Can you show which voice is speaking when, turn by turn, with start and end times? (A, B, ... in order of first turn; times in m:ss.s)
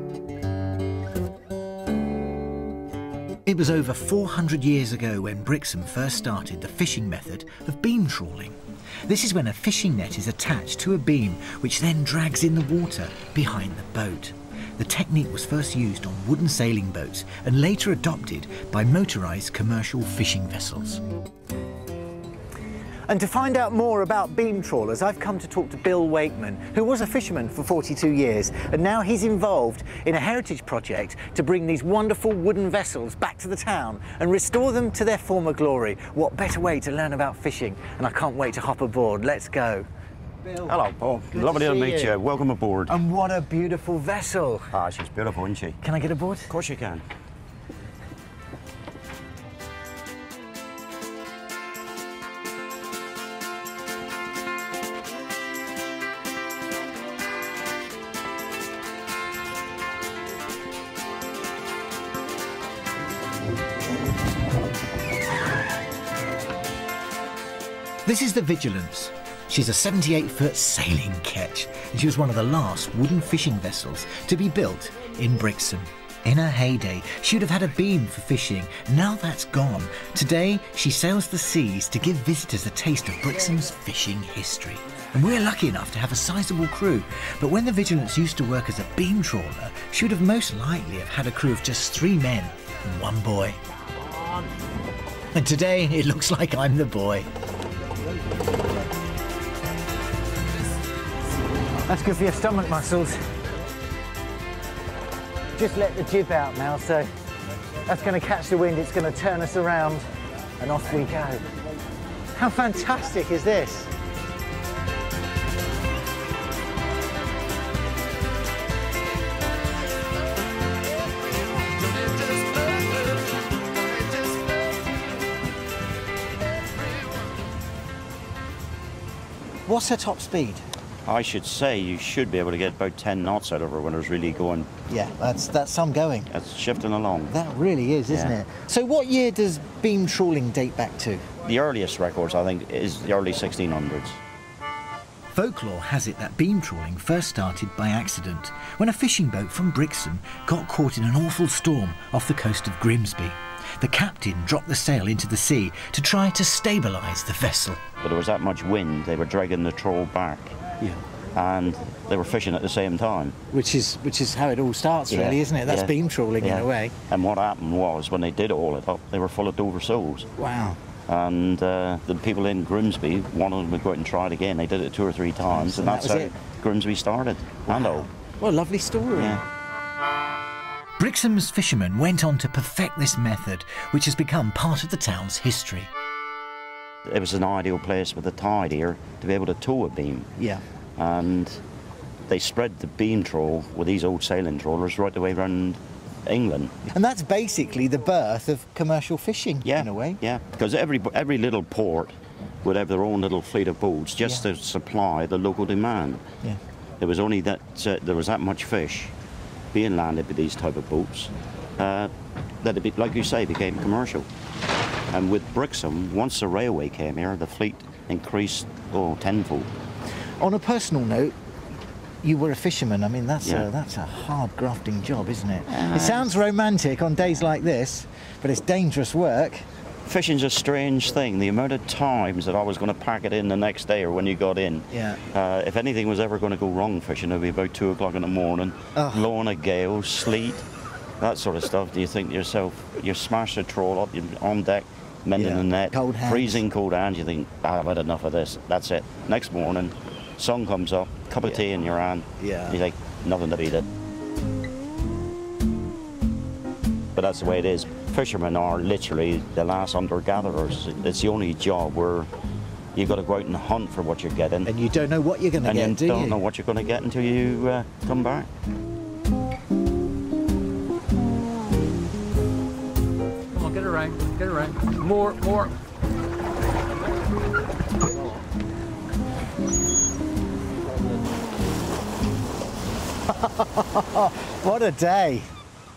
0:03.5-0:21.0 A
0:23.1-0:39.9 A
0:40.5-0:40.8 A
0:40.6-0:43.0 B
0:41.4-0:42.2 A
0:42.9-0:44.7 A
0:44.7-0:45.8 B
0:45.8-0:46.5 A
0:46.5-0:47.0 B
1:08.0-1:33.6 A
1:35.4-1:37.3 A
1:41.9-1:43.2 A
1:45.6-1:47.1 A
1:47.8-1:50.1 A
1:50.6-1:51.4 A
1:52.4-1:53.9 A
2:09.7-2:10.6 A
2:11.1-2:14.7 B
2:14.9-2:16.3 A
2:16.3-2:17.4 B
2:17.3-2:21.3 A
2:18.1-2:18.4 B
2:21.4-2:24.2 B
2:25.3-2:37.8 A
2:38.0-2:40.6 B
2:41.3-2:43.4 B
2:43.5-2:46.9 A
2:45.1-2:50.3 B
2:50.4-2:50.8 A
2:51.1-2:58.1 B
2:55.5-2:56.3 A
2:57.7-2:59.4 A
2:59.1-2:59.4 B
3:01.0-3:05.9 A
3:07.1-3:10.3 B
3:10.4-3:10.6 A
3:11.0-3:11.6 B
3:12.3-3:16.7 B
3:16.9-3:20.2 A
3:19.6-3:26.2 B
3:27.0-3:29.1 B
3:29.7-3:32.1 B
3:32.6-3:34.3 B
3:35.1-3:39.7 B
3:40.4-3:41.3 A
3:42.2-3:49.6 A
3:43.4-3:43.7 B
3:45.7-3:46.3 B
3:50.1-4:00.6 B
3:54.9-3:55.2 A
3:59.0-3:59.3 A
4:01.2-4:13.9 B
4:05.4-4:06.6 A
4:12.4-4:12.8 A
4:17.2-4:22.3 B
4:23.0-4:24.7 B
4:24.7-4:26.4 A
4:25.6-4:28.5 B
4:33.5-4:35.7 C
4:43.3-4:45.5 A